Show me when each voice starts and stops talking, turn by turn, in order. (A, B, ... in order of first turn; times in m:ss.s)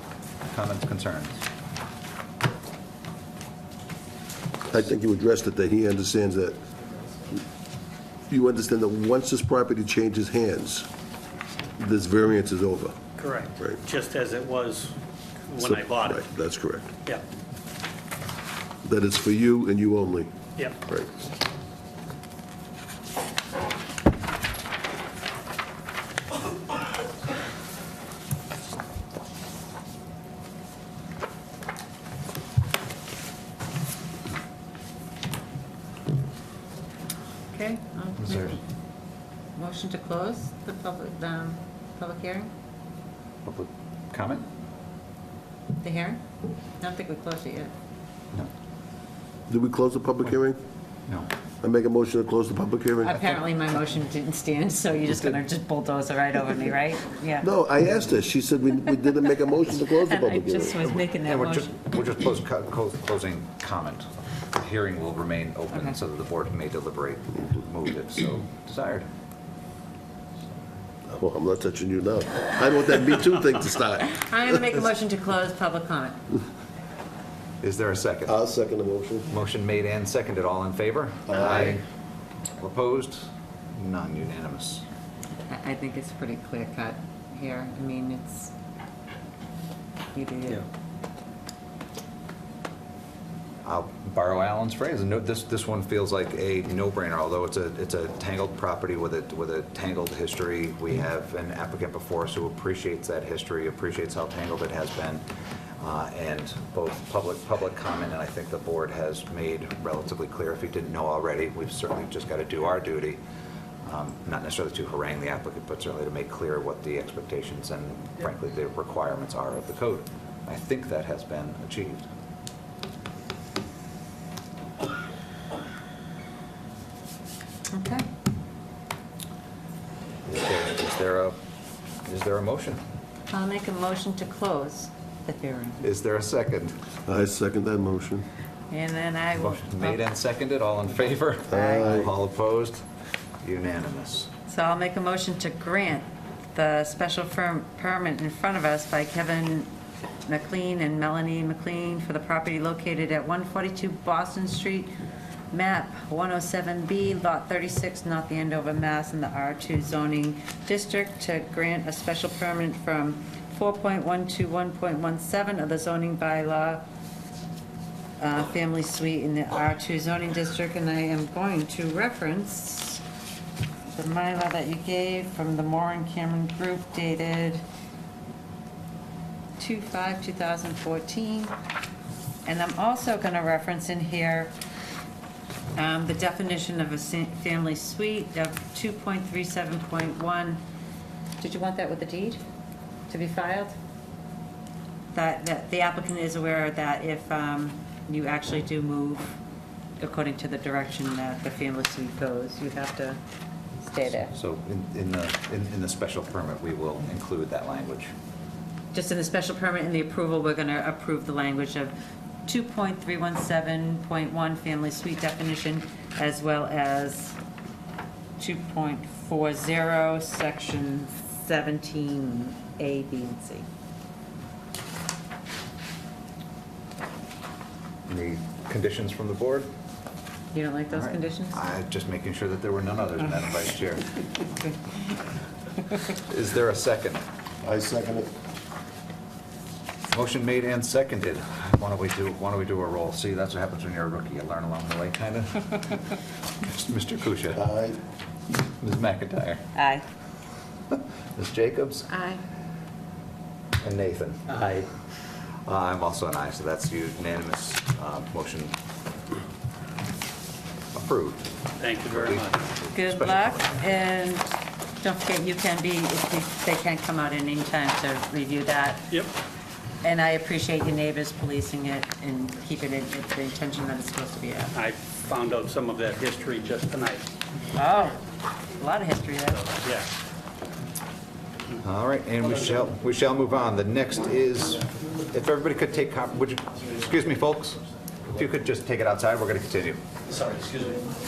0:00.5-0:01.4 A
0:04.7-0:06.6 B
0:08.3-0:10.9 B
0:11.8-0:13.0 B
0:13.2-0:16.2 C
0:15.6-0:16.9 B
0:18.8-0:20.3 B
0:20.9-0:21.1 B
0:37.5-0:38.6 D
0:38.2-0:38.6 A
0:39.6-0:42.5 D
0:43.4-0:44.5 A
0:45.8-0:46.2 D
0:46.8-0:47.7 D
0:49.5-0:50.6 B
0:51.6-0:53.3 B
0:53.0-0:57.5 D
0:57.4-1:00.9 B
0:59.7-1:01.7 D
1:01.2-1:09.1 A
1:11.1-1:14.2 B
1:14.1-1:16.3 D
1:17.6-1:18.4 A
1:18.3-1:19.3 B
1:19.3-1:21.8 A
1:21.3-1:21.8 B
1:22.6-1:24.8 A
1:25.4-1:28.5 D
1:30.1-1:30.7 D
1:33.6-1:45.2 A
1:45.8-1:53.2 A
1:53.8-2:02.1 A
2:07.7-2:08.1 D
2:10.3-2:11.4 A
2:12.1-2:12.8 A
2:13.3-2:15.8 D
2:15.8-2:16.8 A
2:17.1-2:18.2 B
2:18.7-2:20.0 D
2:19.4-2:22.8 A
2:21.5-2:21.9 D
2:21.5-2:22.1 B
2:23.4-2:24.3 A
2:24.5-2:29.7 D
2:30.2-2:35.0 D
2:35.5-2:46.8 D
2:48.2-2:53.0 D
2:53.9-2:57.6 D
2:59.6-3:01.5 D
3:02.4-3:04.5 D
3:05.8-3:10.6 D
3:11.4-3:12.4 D
3:13.1-3:13.8 D
3:15.1-3:19.4 D
3:20.0-3:23.2 D
3:23.8-3:24.3 D
3:24.2-3:28.1 A
3:28.9-3:31.9 D
3:32.5-3:37.4 D
3:38.4-3:43.7 D
3:48.1-3:49.7 A
3:50.5-3:51.7 D
3:50.9-3:54.1 A
3:56.1-3:57.2 A
3:57.6-3:58.3 B
4:00.1-4:07.6 A
4:07.6-4:08.0 B
4:08.5-4:09.6 A
4:09.7-4:10.0 D
4:10.9-4:12.1 A
4:12.1-4:12.4 D
4:13.8-4:14.9 A
4:15.6-4:18.7 A
4:21.0-4:21.5 A
4:21.8-4:22.6 C
4:22.1-4:23.7 A
4:22.9-4:29.1 D
4:30.0-4:34.8 D
4:34.8-4:37.3 C
4:37.7-4:38.2 D
4:38.8-4:39.7 D
4:39.7-4:40.1 C
4:41.8-4:50.0 A